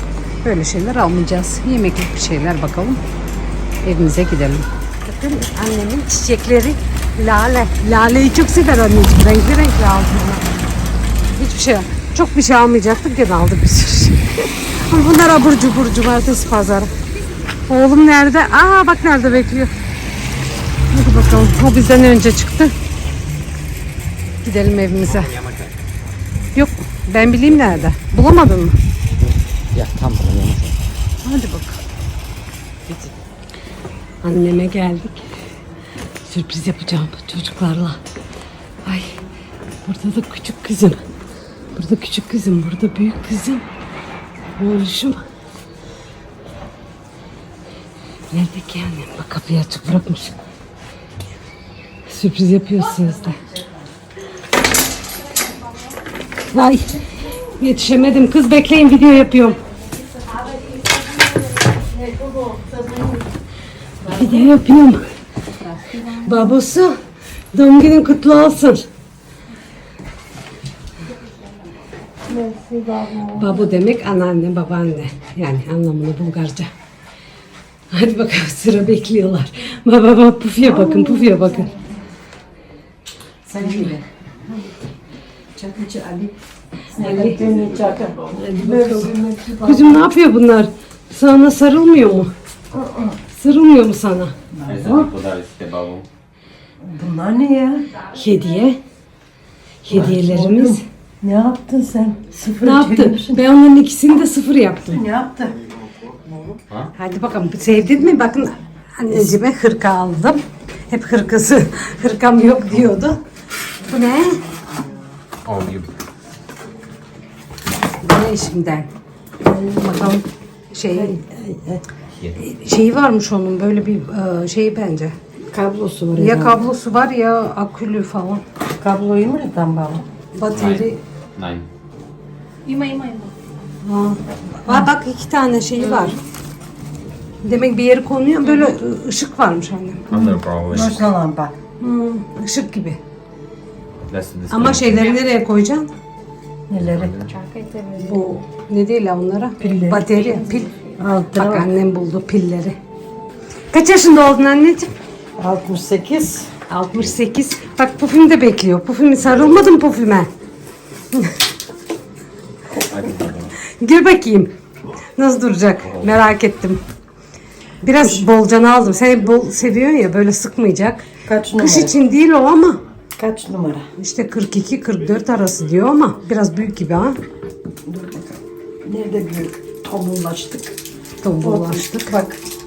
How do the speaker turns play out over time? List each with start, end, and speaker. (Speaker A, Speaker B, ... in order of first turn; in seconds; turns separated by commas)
Speaker A: 0.4-3.0, Speaker A: 3.8-10.4, Speaker A: 11.3-14.2, Speaker A: 14.9-16.9, Speaker A: 17.7-19.7, Speaker A: 20.9-22.7, Speaker A: 24.4-25.4, Speaker A: 26.6-28.8, Speaker B: 29.7-30.8, Speaker A: 31.2-31.8, Speaker A: 34.2-35.3, Speaker A: 36.3-38.0, Speaker A: 38.9-39.2, Speaker A: 39.8-41.0, Speaker A: 41.7-43.6, Speaker A: 44.5-45.2, Speaker A: 48.3-50.4, Speaker A: 52.1-53.4, Speaker A: 56.5-59.6, Speaker C: 60.7-63.3, Speaker A: 64.0-65.1, Speaker A: 66.0-67.0, Speaker A: 67.5-68.9, Speaker C: 72.3-73.6, Speaker A: 73.3-76.7, Speaker A: 77.9-81.8, Speaker C: 80.8-81.5, Speaker C: 83.5-84.0, Speaker A: 83.6-83.9, Speaker C: 85.5-86.3, Speaker C: 86.9-90.0, Speaker A: 87.0-87.4, Speaker A: 88.4-89.1, Speaker A: 89.6-92.3, Speaker C: 92.7-93.2, Speaker A: 93.3-94.3, Speaker C: 94.5-95.1, Speaker B: 94.7-96.1, Speaker C: 96.8-97.9, Speaker A: 98.0-98.8, Speaker A: 99.8-100.8, Speaker C: 99.9-103.4, Speaker A: 102.6-105.0, Speaker C: 104.9-105.6, Speaker A: 107.0-113.2, Speaker A: 113.9-114.4, Speaker B: 115.5-115.9, Speaker A: 118.0-118.9, Speaker C: 119.4-120.2, Speaker A: 119.8-121.2, Speaker C: 120.9-121.8, Speaker A: 122.3-125.2, Speaker C: 125.5-126.7, Speaker A: 126.2-128.4, Speaker C: 128.8-130.1, Speaker A: 130.3-131.0, Speaker B: 130.5-131.7, Speaker D: 132.7-133.3, Speaker A: 133.8-136.2, Speaker A: 137.4-140.1, Speaker B: 140.1-141.1, Speaker C: 140.1-141.5, Speaker A: 141.8-143.0, Speaker B: 144.0-145.0, Speaker A: 144.5-145.9, Speaker C: 146.7-147.2, Speaker B: 146.7-147.3, Speaker D: 147.3-148.1, Speaker C: 148.1-148.4, Speaker A: 148.3-150.7, Speaker C: 149.6-150.1, Speaker D: 150.2-150.9, Speaker C: 151.0-151.7, Speaker A: 151.3-152.8, Speaker A: 153.7-154.9, Speaker C: 155.4-156.5, Speaker A: 156.7-160.3, Speaker B: 162.8-163.6, Speaker A: 163.7-164.5, Speaker A: 165.2-166.8, Speaker A: 167.8-171.1, Speaker C: 171.2-171.9, Speaker A: 171.6-172.8, Speaker C: 173.2-173.9, Speaker A: 174.0-177.2, Speaker C: 177.9-180.8, Speaker A: 181.2-182.1, Speaker C: 181.4-182.4